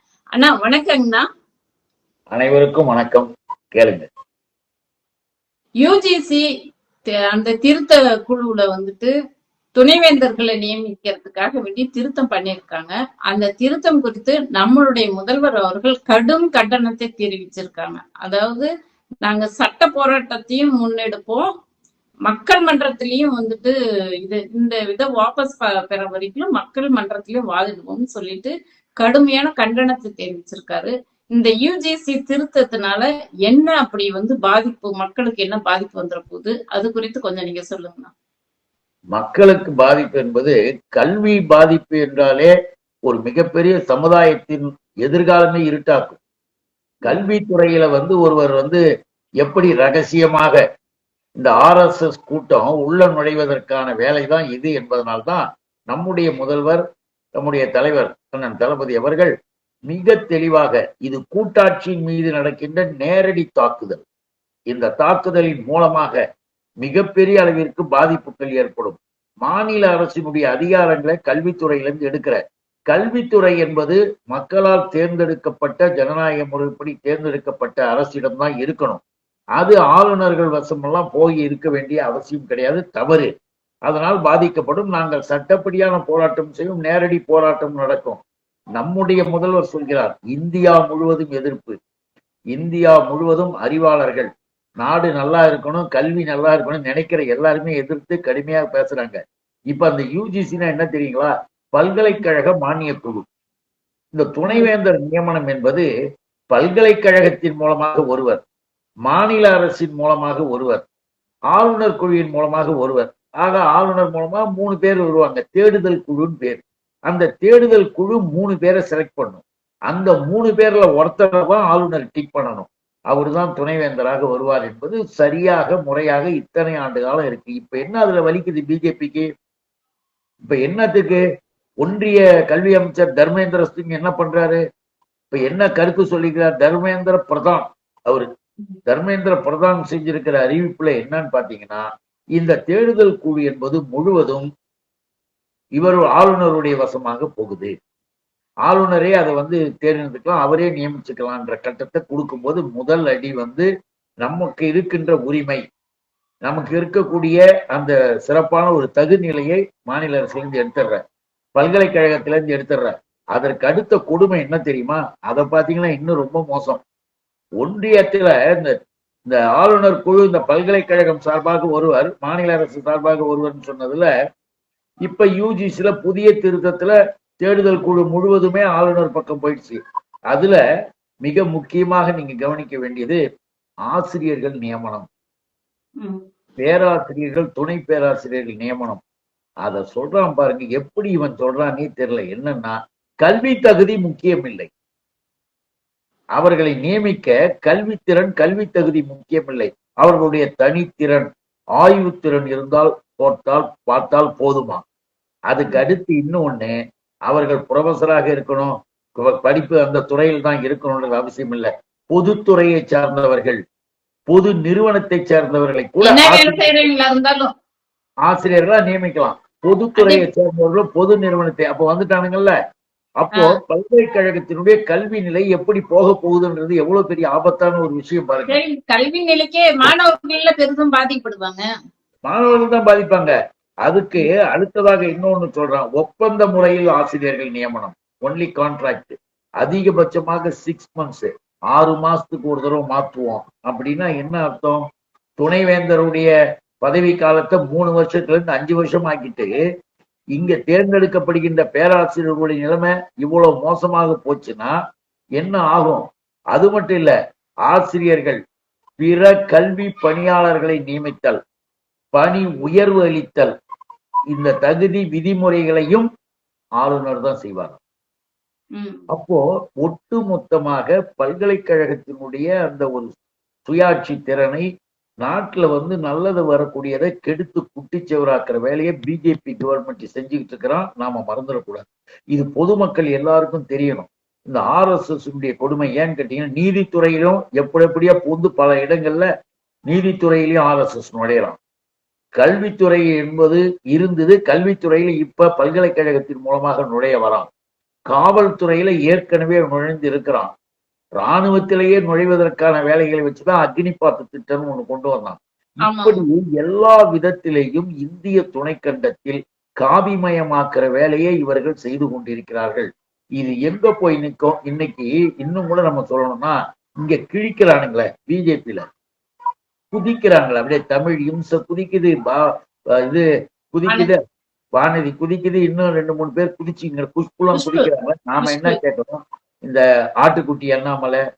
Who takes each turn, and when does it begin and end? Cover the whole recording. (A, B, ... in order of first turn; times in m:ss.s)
0:00.4-0:01.2 A
0:02.3-0:04.1 B
0:05.8-0:06.4 A
0:07.3-0:09.1 A
0:09.8-0:18.7 A
0:19.2-0:21.5 A
0:22.3-0:38.1 A
0:39.2-0:42.5 B
0:43.1-0:46.2 B
0:47.1-0:48.8 B
0:49.4-0:50.6 B
0:51.4-0:56.8 B
0:57.4-0:59.3 B
0:59.9-1:04.0 B
1:04.7-1:06.2 B
1:06.8-1:19.0 B
1:19.6-1:23.3 B
1:23.9-1:28.2 B
1:28.8-1:31.8 B
1:32.6-1:34.3 B
1:34.8-1:39.2 B
1:39.7-1:43.2 B
1:44.2-1:45.9 B
1:46.5-1:48.4 B
1:49.1-1:50.8 B
1:51.5-2:09.3 B
2:10.4-2:11.2 B
2:11.8-2:14.6 B
2:15.3-2:18.3 B
2:18.9-2:21.8 B
2:22.4-2:24.5 B
2:25.8-2:27.7 B
2:28.7-2:33.7 B
2:34.2-2:35.6 B
2:36.5-2:41.0 B
2:41.6-2:46.8 B
2:47.6-2:48.7 B
2:49.3-2:54.1 B
2:55.0-2:59.8 B
3:00.3-3:00.6 B
3:01.2-3:03.2 B
3:03.9-3:05.1 B
3:06.6-3:09.0 B
3:09.6-3:14.7 B
3:16.4-3:24.8 B
3:25.5-3:26.8 B
3:27.3-3:33.6 B
3:34.3-3:36.7 B
3:36.0-3:37.5 A
3:38.3-3:42.5 B
3:43.2-3:48.6 B
3:48.5-3:51.6 A
3:52.3-3:53.3 B
3:53.9-4:04.8 B
4:05.4-4:06.3 B
4:06.8-4:09.5 B
4:10.4-4:14.7 B
4:15.4-4:17.1 B
4:17.7-4:18.4 B
4:19.0-4:21.4 B
4:22.1-4:23.5 B
4:24.3-4:26.1 B
4:26.8-4:27.8 B
4:28.8-4:29.1 A
4:29.1-4:33.1 B
4:33.7-4:34.6 B
4:35.2-4:49.3 B
4:49.9-4:51.6 B
4:52.4-4:57.5 B
4:58.1-5:00.5 B
5:01.2-5:12.9 B
5:05.8-5:06.2 A
5:13.4-5:18.8 B
5:19.9-5:22.4 B
5:23.1-5:24.2 B
5:24.8-5:31.2 B
5:27.5-5:27.9 A
5:28.4-5:28.8 A